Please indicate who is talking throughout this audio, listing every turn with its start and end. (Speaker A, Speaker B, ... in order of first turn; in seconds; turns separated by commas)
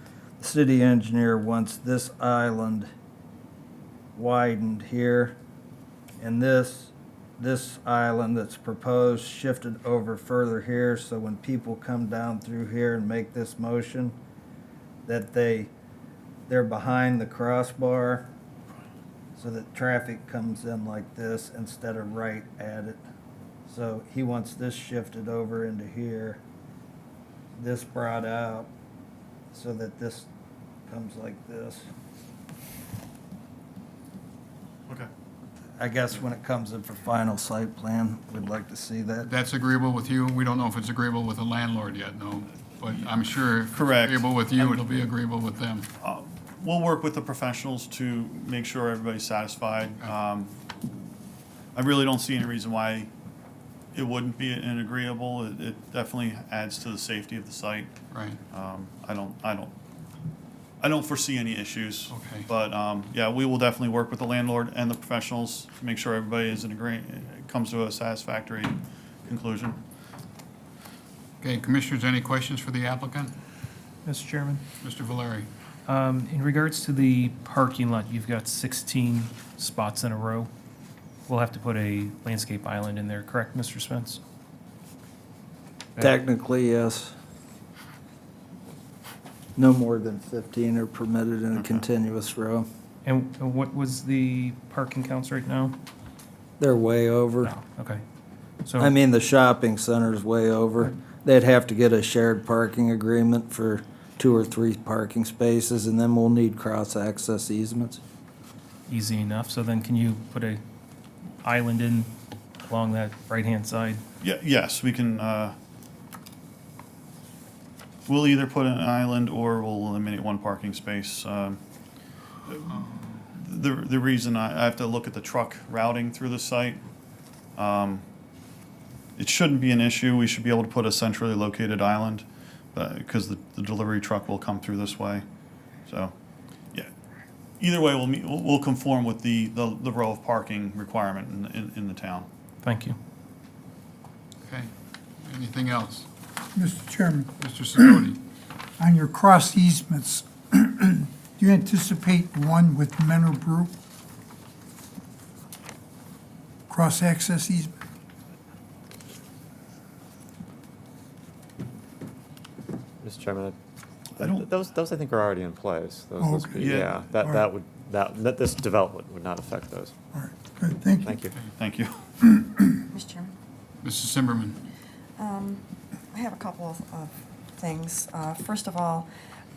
Speaker A: 0.4-2.9, Speaker A: 4.1-5.3, Speaker A: 6.2-14.2, Speaker A: 15.1-15.7, Speaker A: 16.5-18.3, Speaker A: 19.4-23.0, Speaker A: 23.7-26.4, Speaker A: 27.6-28.7, Speaker A: 29.5-30.3, Speaker A: 30.9-31.9, Speaker A: 35.8-39.3, Speaker B: 39.2-45.9, Speaker C: 43.7-44.9, Speaker C: 46.0-50.6, Speaker C: 51.7-53.1, Speaker C: 53.9-57.9, Speaker B: 58.1-58.4, Speaker C: 58.5-59.7, Speaker C: 60.8-69.8, Speaker B: 62.1-62.5, Speaker B: 71.4-73.3, Speaker D: 74.0-74.6, Speaker B: 74.8-75.5, Speaker D: 75.9-80.5, Speaker D: 81.3-84.2, Speaker A: 86.0-87.1, Speaker A: 89.6-92.7, Speaker C: 91.5-91.8, Speaker D: 93.0-95.8, Speaker A: 96.6-97.5, Speaker D: 97.4-98.0, Speaker D: 98.6-98.9, Speaker A: 98.8-108.0, Speaker D: 108.9-110.6, Speaker D: 111.4-114.0, Speaker C: 114.2-115.5, Speaker C: 118.1-121.6, Speaker C: 122.5-126.8, Speaker C: 127.5-128.0, Speaker C: 129.2-135.2, Speaker C: 135.9-136.1, Speaker C: 137.6-142.3, Speaker D: 142.6-142.9, Speaker B: 144.4-146.1, Speaker E: 146.5-148.0, Speaker B: 147.4-148.2, Speaker E: 148.8-153.7, Speaker E: 156.7-157.7, Speaker F: 163.0-163.5, Speaker F: 164.2-169.9, Speaker C: 164.2-164.5, Speaker E: 166.2-167.5, Speaker C: 166.5-167.3, Speaker E: 170.1-171.2, Speaker F: 171.0-171.3, Speaker C: 171.5-172.1, Speaker E: 172.2-172.8, Speaker G: 172.9-173.3, Speaker B: 173.8-174.6, Speaker G: 175.2-179.1